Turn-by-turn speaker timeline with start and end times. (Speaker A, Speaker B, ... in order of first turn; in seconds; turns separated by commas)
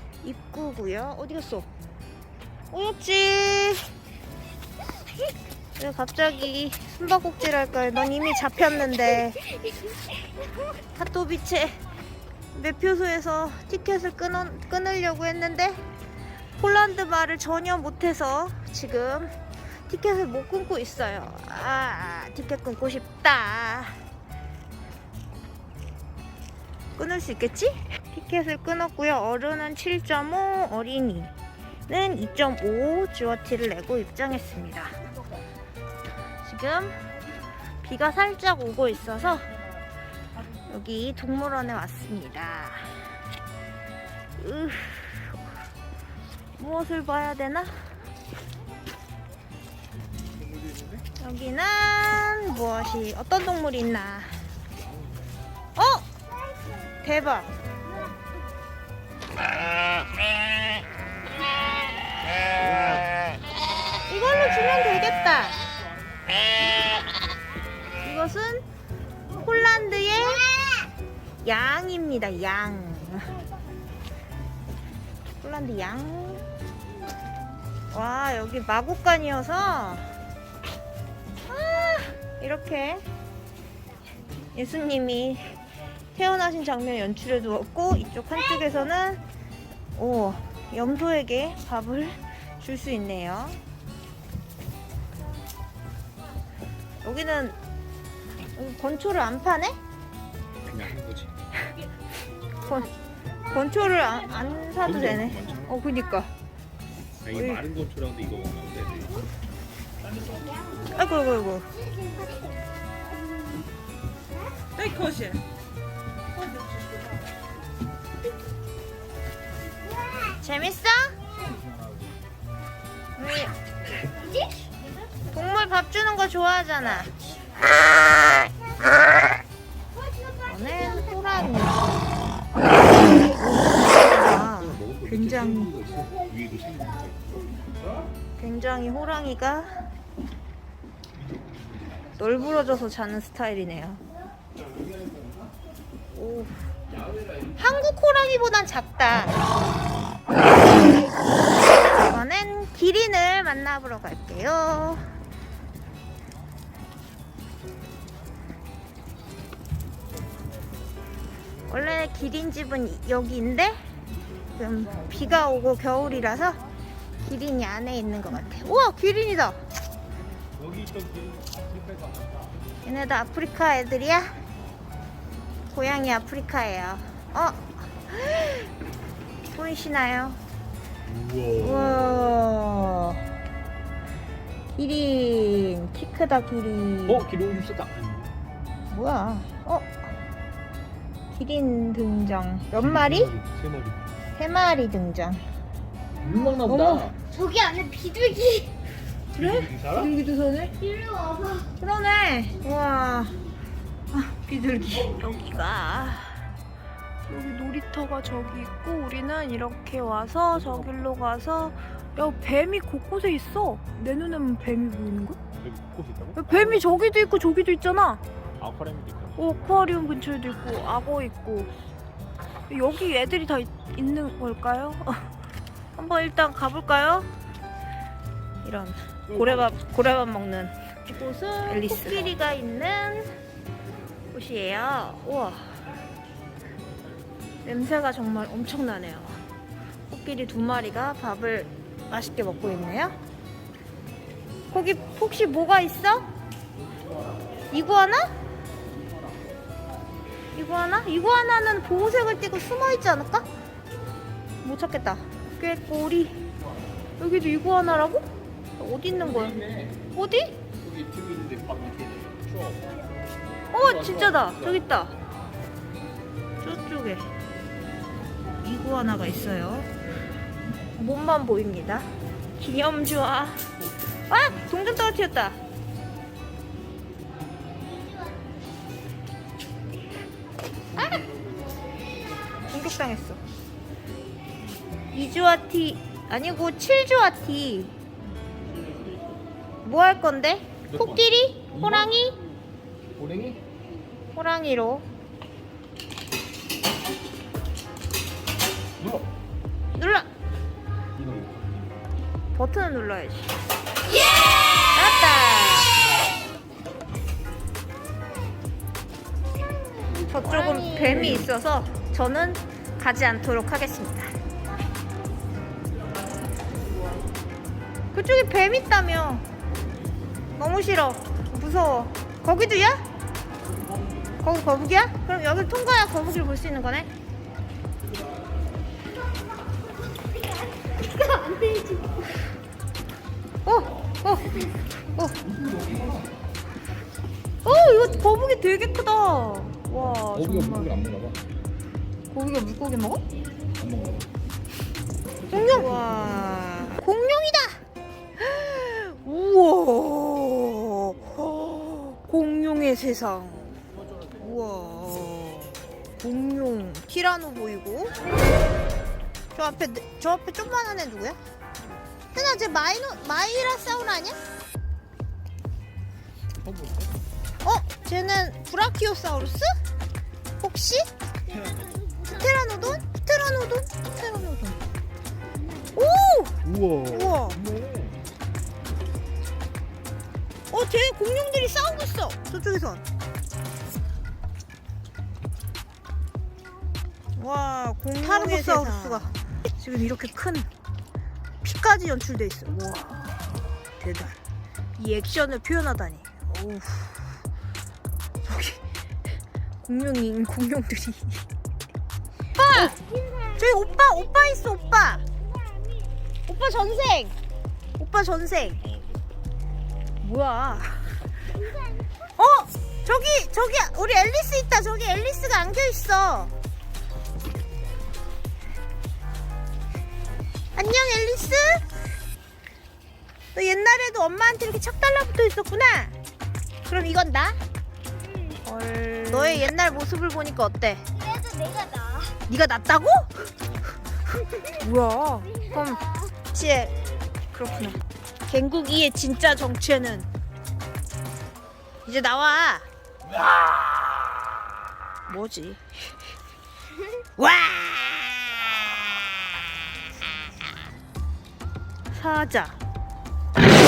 Speaker A: 0.2-1.7, Speaker A: 2.7-3.9, Speaker A: 5.8-9.4, Speaker A: 10.9-11.8, Speaker A: 12.5-15.8, Speaker A: 16.6-19.3, Speaker A: 19.9-24.0, Speaker A: 27.0-31.3, Speaker A: 31.9-34.9, Speaker A: 36.4-36.9, Speaker A: 37.8-39.5, Speaker A: 40.7-43.1, Speaker A: 44.4-45.4, Speaker A: 46.6-47.7, Speaker B: 50.4-51.0, Speaker A: 51.2-54.4, Speaker B: 54.9-55.2, Speaker A: 55.8-56.1, Speaker A: 57.0-57.5, Speaker A: 64.1-65.6, Speaker A: 68.0-68.6, Speaker A: 69.3-70.5, Speaker A: 71.4-73.3, Speaker A: 75.4-76.4, Speaker A: 77.9-80.1, Speaker A: 81.5-83.1, Speaker A: 84.5-85.6, Speaker A: 86.1-89.2, Speaker A: 90.0-93.6, Speaker A: 97.0-97.6, Speaker A: 98.5-99.8, Speaker B: 100.6-101.3, Speaker A: 102.6-102.9, Speaker A: 103.4-106.3, Speaker B: 104.8-105.7, Speaker B: 107.2-109.2, Speaker A: 107.3-107.7, Speaker C: 110.4-110.7, Speaker A: 110.9-111.7, Speaker C: 111.9-112.5, Speaker A: 114.8-115.4, Speaker C: 119.9-120.3, Speaker A: 120.3-121.2, Speaker A: 123.2-123.5, Speaker C: 124.2-124.5, Speaker A: 125.3-127.1, Speaker C: 130.0-130.3, Speaker A: 130.4-131.9, Speaker A: 133.3-135.8, Speaker B: 134.3-137.8, Speaker A: 138.4-139.8, Speaker A: 142.2-144.0, Speaker B: 144.8-145.3, Speaker A: 146.1-146.6, Speaker A: 147.6-149.4, Speaker A: 151.8-155.1, Speaker A: 161.7-163.8, Speaker A: 164.5-166.6, Speaker A: 167.2-169.6, Speaker B: 170.6-172.5, Speaker A: 172.8-174.3, Speaker A: 175.7-178.7, Speaker A: 179.5-180.4, Speaker B: 181.1-182.2, Speaker A: 181.6-183.3, Speaker A: 184.8-187.3, Speaker B: 187.1-188.3, Speaker A: 188.9-190.0, Speaker A: 191.3-193.3, Speaker B: 192.8-194.0, Speaker A: 194.3-195.4, Speaker B: 196.2-197.1, Speaker A: 196.6-197.1, Speaker C: 197.3-198.7, Speaker A: 199.4-200.8, Speaker B: 199.4-200.1, Speaker C: 200.8-201.7, Speaker A: 201.8-203.3, Speaker A: 204.1-206.4, Speaker A: 207.3-215.4, Speaker B: 215.6-216.8, Speaker A: 216.4-218.2, Speaker B: 218.6-219.6, Speaker A: 219.4-221.7, Speaker A: 222.7-225.3, Speaker A: 225.9-227.3, Speaker A: 228.6-233.4, Speaker B: 229.3-229.7, Speaker A: 234.3-235.8, Speaker A: 237.6-239.4, Speaker A: 240.1-243.2, Speaker A: 244.7-246.3, Speaker A: 247.7-248.3, Speaker A: 250.6-253.5, Speaker A: 254.6-256.5, Speaker A: 257.2-258.2, Speaker A: 258.8-259.6, Speaker B: 259.2-260.0, Speaker A: 260.1-260.6, Speaker B: 260.8-263.0, Speaker B: 263.7-264.8, Speaker A: 263.7-265.2, Speaker A: 266.6-267.3, Speaker A: 268.6-269.9, Speaker A: 271.0-272.1, Speaker A: 272.6-273.6, Speaker A: 274.3-275.6, Speaker C: 277.9-278.4, Speaker A: 280.9-281.2, Speaker A: 282.6-283.4, Speaker A: 285.1-287.9, Speaker A: 289.8-292.4, Speaker B: 290.9-292.1, Speaker B: 293.1-293.6, Speaker A: 294.3-295.0, Speaker B: 299.0-299.3, Speaker A: 300.0-300.3, Speaker B: 301.1-302.0, Speaker A: 302.5-303.5, Speaker A: 304.9-306.0, Speaker C: 309.7-311.3, Speaker A: 310.3-314.3, Speaker A: 318.1-319.4, Speaker A: 320.6-322.9, Speaker A: 324.4-327.1, Speaker C: 330.3-332.2, Speaker A: 333.6-335.4, Speaker B: 335.6-336.2, Speaker A: 337.6-341.0, Speaker B: 339.9-341.4, Speaker A: 342.3-343.2, Speaker B: 343.8-344.2, Speaker A: 345.5-347.8, Speaker B: 345.6-346.0, Speaker A: 348.4-353.8, Speaker A: 354.4-358.1, Speaker A: 359.5-361.4, Speaker A: 362.3-364.4, Speaker B: 366.6-367.1, Speaker A: 367.6-369.7, Speaker A: 370.6-371.1, Speaker C: 371.6-372.3, Speaker A: 372.3-374.8, Speaker A: 375.9-377.6, Speaker B: 376.7-378.2, Speaker A: 380.7-383.0, Speaker A: 387.4-390.7, Speaker A: 391.6-393.3, Speaker A: 394.0-394.4, Speaker A: 395.0-397.4, Speaker A: 398.4-398.8, Speaker A: 399.8-401.4, Speaker A: 402.5-403.0, Speaker C: 402.9-404.1, Speaker A: 403.6-405.2, Speaker C: 405.5-406.1, Speaker A: 406.5-407.3, Speaker A: 408.0-408.8, Speaker A: 410.2-411.2, Speaker C: 411.6-412.1, Speaker A: 412.4-416.5, Speaker A: 420.7-421.9, Speaker A: 423.5-426.1, Speaker A: 426.9-427.6, Speaker A: 428.6-431.0, Speaker C: 431.1-432.4, Speaker A: 432.5-433.5, Speaker A: 434.6-436.9, Speaker A: 437.5-440.3, Speaker A: 442.0-442.9, Speaker A: 445.3-446.1, Speaker A: 447.4-448.3, Speaker A: 452.1-452.8